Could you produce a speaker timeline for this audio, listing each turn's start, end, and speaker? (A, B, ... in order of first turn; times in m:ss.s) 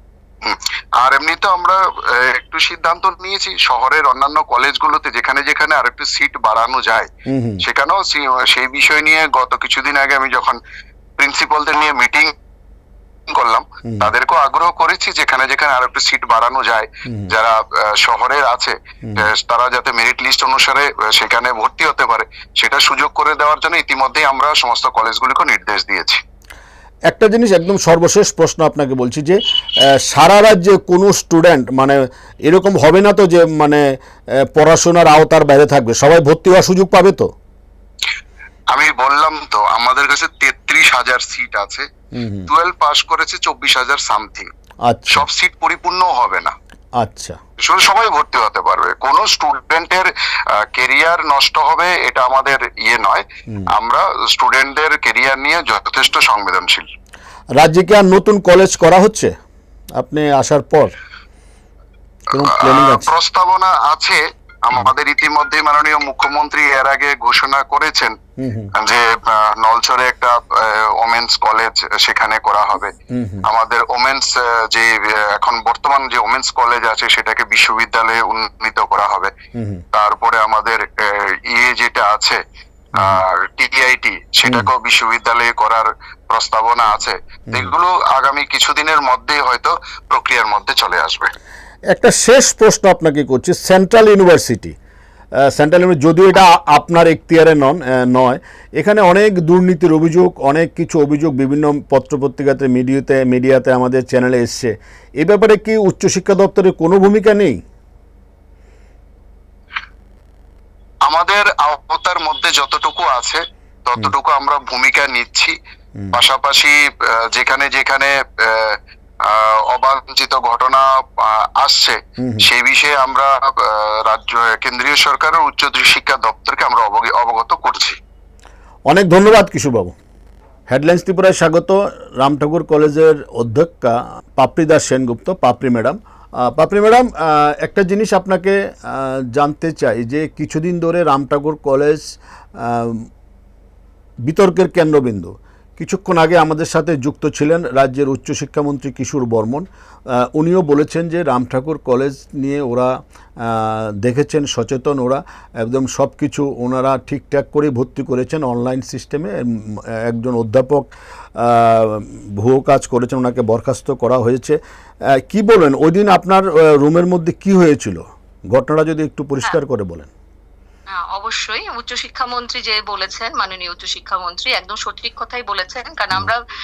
0:00.4-0:07.1 A
0:07.3-0:07.6 B
0:07.6-0:10.6 A
0:11.2-0:12.4 A
0:13.3-0:26.2 A
0:13.8-0:14.1 B
0:17.1-0:17.3 B
0:19.0-0:19.3 B
0:27.1-0:29.4 B
0:29.9-0:37.3 B
0:38.7-0:41.9 A
0:42.1-0:42.5 B
0:42.5-0:44.5 A
0:44.8-0:45.3 B
0:45.1-0:46.6 A
0:47.0-0:47.4 B
0:47.6-0:56.9 A
0:57.6-0:59.3 B
1:00.0-1:00.9 B
1:02.3-1:03.1 B
1:02.4-1:08.2 A
1:08.4-1:08.7 B
1:08.8-1:19.3 A
1:13.1-1:13.5 B
1:19.6-1:19.8 B
1:19.9-1:22.4 A
1:22.9-1:31.3 A
1:23.0-1:23.2 B
1:24.4-1:24.7 B
1:31.9-1:34.8 B
1:35.4-1:47.6 B
1:51.0-1:55.6 A
1:56.1-2:08.0 A
2:02.2-2:02.5 B
2:08.9-2:10.0 B
2:10.7-2:23.1 B
2:24.2-2:44.6 B
2:45.2-2:50.1 B
2:50.9-2:56.4 C